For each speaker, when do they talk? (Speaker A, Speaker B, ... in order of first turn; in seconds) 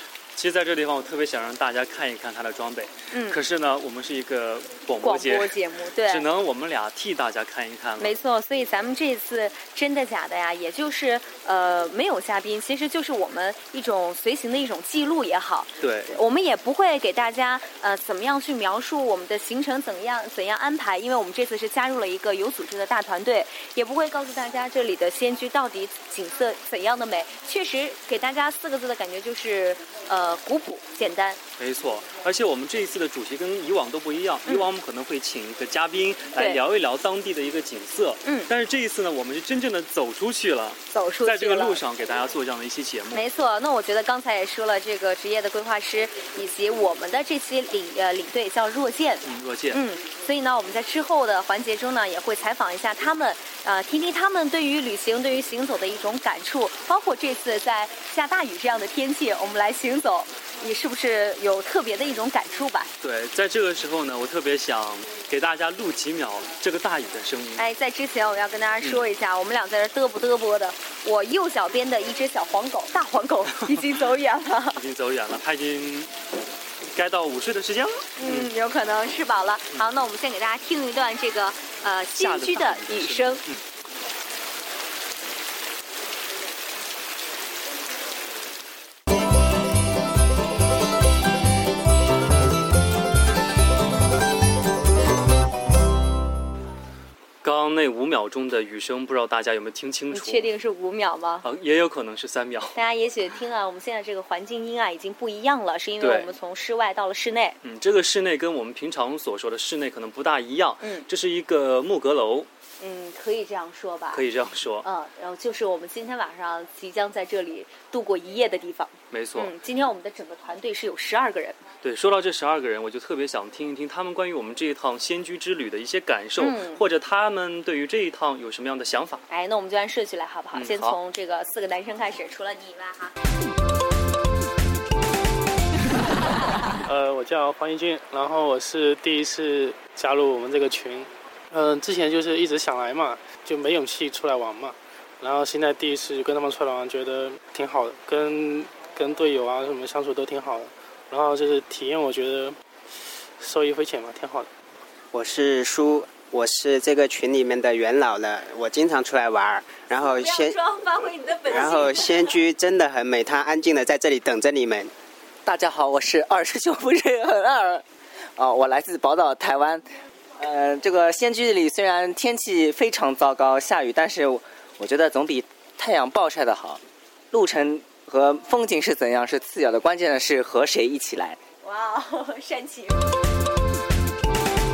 Speaker A: 0.4-8.2, 15.8-16.1, 31.6-43.2, 49.2-49.8, 63.0-67.7, 68.8-69.1, 74.7-76.1, 76.9-78.5, 82.2-83.6, 97.4-100.5, 101.4-102.8, 106.0-106.3, 107.6-112.5, 114.1-114.9, 119.1-119.5, 121.8-129.2, 130.5-131.0
Speaker B: 3.1-3.4, 5.0-6.3, 8.0-31.4, 36.4-36.6, 38.2-38.5, 40.9-41.8, 43.1-62.9, 67.6-74.8, 78.2-83.4, 100.1-101.5, 102.7-107.6, 112.8-114.2, 114.8-121.6, 126.4-126.8, 129.3-133.1, 160.0-162.4, 181.6-183.0
Speaker C: 136.8-152.6, 153.4-154.5
Speaker D: 155.1-160.6, 161.5-164.9
Speaker E: 165.5-167.8, 168.4-169.8, 170.4-176.8, 177.3-181.4